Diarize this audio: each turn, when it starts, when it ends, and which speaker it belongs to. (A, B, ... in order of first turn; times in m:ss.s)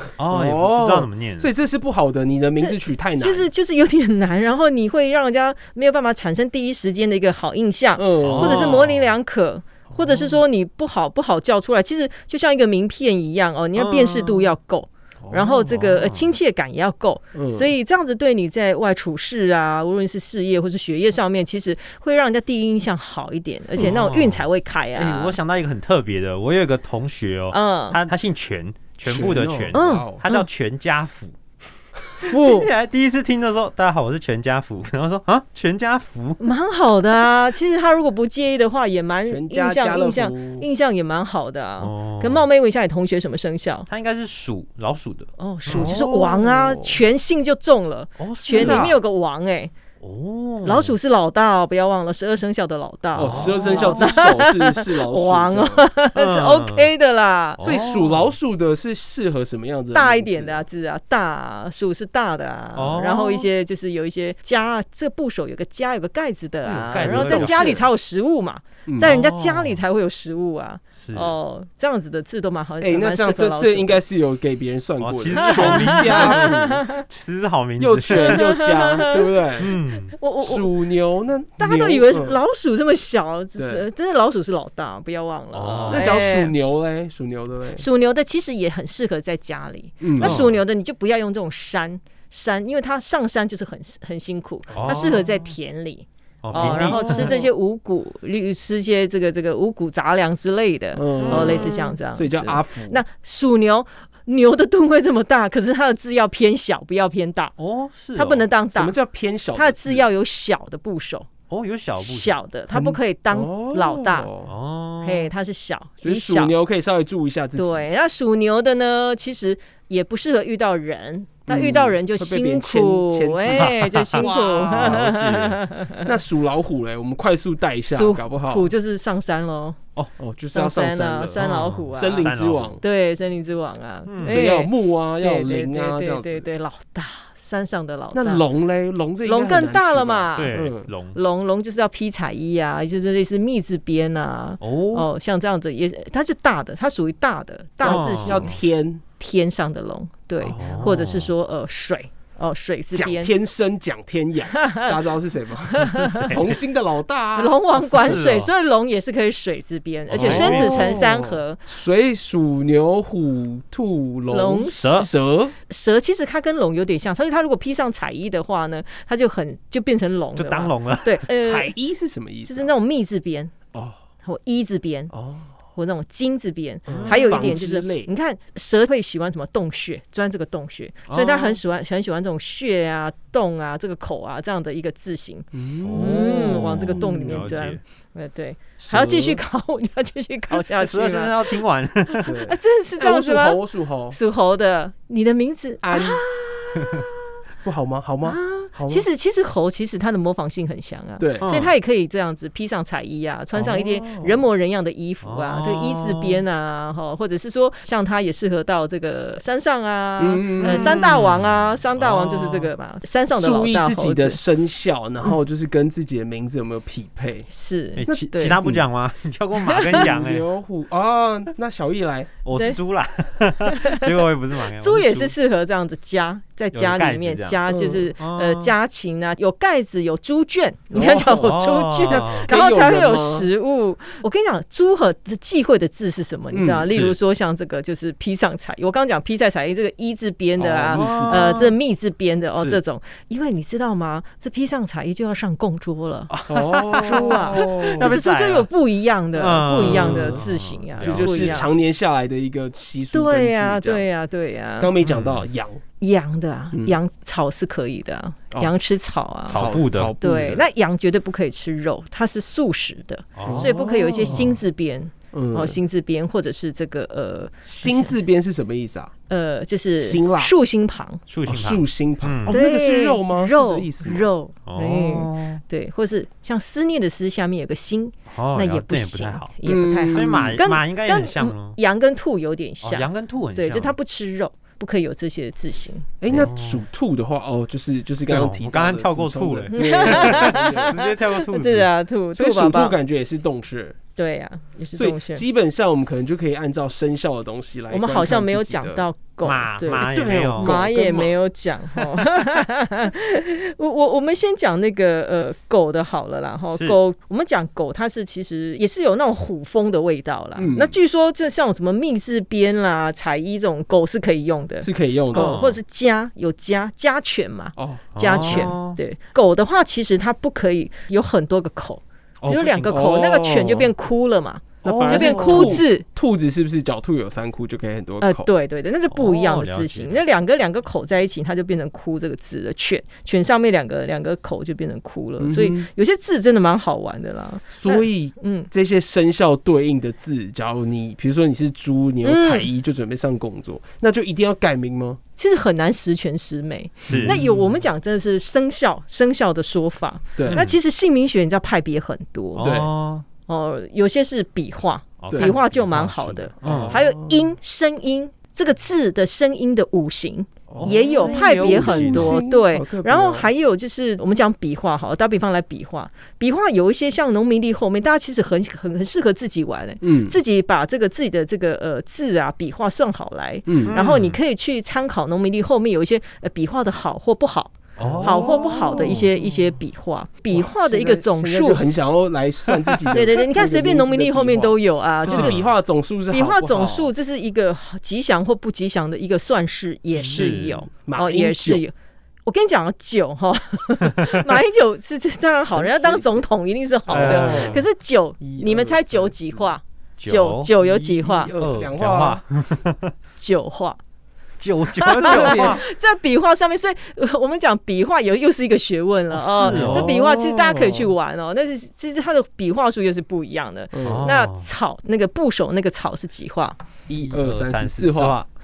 0:00.2-0:01.5 A
0:00.3-0:03.5 B
0:02.6-0:25.4 C
0:07.9-0:08.9 B
0:08.2-0:09.1 A
0:13.8-0:14.5 A
0:15.2-0:15.6 B
0:15.5-0:16.3 A
0:17.3-0:17.7 B
0:23.8-0:31.3 A
0:27.5-0:28.0 C
0:29.0-0:30.2 B
0:29.7-0:30.5 C
0:32.1-0:36.4 A
0:32.2-0:32.7 C
0:36.4-0:43.9 C
0:39.3-0:40.7 B
0:41.8-0:42.5 A
0:43.9-0:46.0 A
0:45.4-0:49.7 C
0:45.7-0:47.0 B
0:48.2-0:49.0 A
0:48.5-0:49.0 B
0:50.0-0:51.0 A
0:50.6-0:57.6 C
0:53.1-0:54.2 A
0:53.2-0:55.9 B
0:56.1-0:56.9 A
0:57.6-0:58.3 A
0:57.6-1:00.6 B
0:59.9-1:14.0 C
1:02.8-1:03.5 A
1:06.6-1:07.8 A
1:07.0-1:07.9 B
1:08.8-1:09.2 B
1:09.0-1:09.8 A
1:10.9-1:11.3 A
1:12.8-1:16.8 B
1:15.0-1:18.5 A
1:15.4-1:17.0 C
1:17.8-1:19.8 B
1:18.1-1:19.3 C
1:19.6-1:20.2 A
1:20.1-1:20.7 C
1:20.4-1:22.4 B
1:21.6-1:26.6 C
1:23.6-1:23.9 B
1:25.5-1:26.1 A
1:25.9-1:27.8 B
1:27.7-1:47.5 C
1:30.0-1:30.5 B
1:30.2-1:30.6 A
1:34.7-1:35.4 A
1:36.4-1:37.4 A
1:36.5-1:37.4 B
1:40.9-1:43.0 B
1:41.2-1:41.7 A
1:47.6-1:48.5 A
1:48.1-1:49.0 C
1:48.7-1:50.0 B
1:49.5-1:51.3 C
1:51.5-1:52.4 A
1:52.0-1:54.3 C
1:52.7-1:54.5 B
1:54.4-1:55.3 A
1:55.0-1:56.5 C
1:56.0-1:57.8 B
1:57.5-2:06.1 C
2:01.5-2:08.7 B
2:03.5-2:04.1 A
2:07.9-2:09.8 C
2:10.2-2:12.8 B
2:10.5-2:18.4 C
2:11.4-2:12.7 A
2:14.1-2:14.5 A
2:14.2-2:16.5 B
2:18.1-2:20.9 B
2:19.2-2:28.6 C
2:20.3-2:21.2 A
2:24.6-2:25.1 A
2:27.8-2:29.0 B
2:27.8-2:28.5 A
2:29.2-2:33.3 C
2:30.4-2:31.3 A
2:30.4-2:31.0 B
2:32.9-2:38.3 B
2:34.5-2:34.9 C
2:35.8-2:36.4 C
2:35.9-2:36.4 A
2:37.4-2:41.6 C
2:37.8-2:38.5 A
2:40.1-2:45.5 B
2:40.1-2:41.0 A
2:44.3-2:45.1 C
2:44.8-2:45.1 A
2:45.6-2:51.7 C
2:50.4-2:51.3 A
2:51.4-2:52.7 B
2:52.4-2:53.5 C
2:54.2-2:55.1 C
2:55.1-2:55.5 B
2:55.7-3:17.0 C
2:56.9-2:58.1 B
2:56.9-2:57.4 A
3:01.1-3:01.6 A
3:05.5-3:07.6 B
3:05.8-3:07.8 A
3:08.8-3:09.4 B
3:10.5-3:12.4 A
3:12.2-3:14.2 B
3:15.8-3:16.2 B
3:17.6-3:19.1 B
3:18.2-3:34.4 C
3:21.2-3:21.5 B
3:21.4-3:21.7 A
3:23.5-3:24.5 B
3:25.2-3:26.4 A
3:30.2-3:31.1 B
3:30.6-3:32.7 A
3:33.4-3:37.5 B
3:37.5-3:38.6 C
3:38.0-3:40.4 A
3:38.0-3:38.8 B
3:39.6-3:40.1 C
3:39.9-3:42.3 B
3:42.4-3:45.3 A
3:42.5-3:42.8 C
3:43.6-4:06.3 C
3:46.7-3:47.6 A
3:47.7-3:48.1 B
3:48.2-3:48.7 A
3:50.9-3:53.5 B
3:51.4-3:52.5 A
3:56.5-3:57.0 B
3:56.9-3:57.1 A
4:00.6-4:01.6 B
4:00.9-4:01.8 A
4:02.5-4:02.8 A
4:06.3-4:08.7 A
4:06.5-4:08.2 B
4:07.0-4:11.7 C
4:09.3-4:11.7 A
4:09.8-4:10.4 B
4:11.0-4:14.1 B
4:13.1-4:14.9 C
4:14.8-4:15.8 B
4:15.0-4:15.4 A
4:16.0-4:19.6 C
4:19.5-4:20.2 A
4:19.5-4:20.6 B
4:20.2-4:28.1 C
4:23.4-4:23.7 A
4:23.4-4:24.6 B
4:24.3-4:24.6 A
4:25.3-4:25.8 B
4:27.7-4:29.1 B
4:29.3-4:31.2 C
4:30.0-4:30.5 B
4:31.3-4:32.6 A
4:31.5-4:34.3 B
4:32.5-4:46.1 C
4:34.6-4:35.6 A
4:38.3-4:39.5 A
4:39.6-4:40.6 B
4:40.1-4:41.8 A
4:42.8-4:43.9 A
4:46.2-4:51.0 B
4:46.3-4:46.8 A
4:48.3-4:51.9 A
4:49.7-4:53.0 C
4:52.4-4:54.0 B
4:54.2-4:55.4 C
4:54.9-4:59.1 B
4:57.9-5:26.0 C
4:59.4-5:00.8 A
5:00.0-5:01.4 B
5:10.6-5:11.0 B
5:14.8-5:15.6 B
5:15.3-5:15.8 A
5:17.8-5:18.8 B
5:18.2-5:19.0 A
5:22.4-5:23.1 A
5:22.9-5:23.9 B
5:24.8-5:28.5 B
5:24.8-5:25.8 A
5:28.2-5:38.7 C
5:29.1-5:30.2 A
5:35.4-5:35.9 B
5:37.7-5:45.2 B
5:42.2-5:42.7 C
5:45.4-5:52.7 C
5:47.1-5:47.4 A
5:47.1-5:47.7 B
5:50.4-5:50.6 B
5:50.5-5:50.8 A
5:52.6-5:53.2 A
5:52.6-5:52.9 B
5:53.5-6:21.8 C
5:55.2-5:57.0 A
5:55.3-5:55.6 B
5:56.6-5:57.6 B
6:00.7-6:03.5 B
6:00.8-6:02.4 A
6:10.0-6:10.4 B
6:13.6-6:14.0 B
6:13.9-6:14.4 A
6:18.0-6:19.2 A
6:18.0-6:19.4 B
6:20.5-6:27.1 B
6:23.1-6:25.6 C
6:25.2-6:25.6 A
6:26.3-6:31.9 C
6:30.1-6:30.8 A
6:30.2-6:31.8 B
6:32.4-6:41.5 C
6:35.7-6:36.4 B
6:37.1-6:37.8 B
6:37.1-6:37.8 A
6:38.4-6:39.7 B
6:40.2-6:40.7 A
6:40.8-6:42.4 B
6:41.4-6:43.1 A
6:43.4-6:44.0 C
6:44.6-6:45.8 A
6:45.0-6:56.8 C
6:45.1-6:45.8 B
6:49.3-6:50.1 A
6:49.6-6:51.1 B
6:53.9-6:54.3 B
6:54.0-6:54.7 A
6:57.1-6:58.4 B
6:57.2-6:58.5 A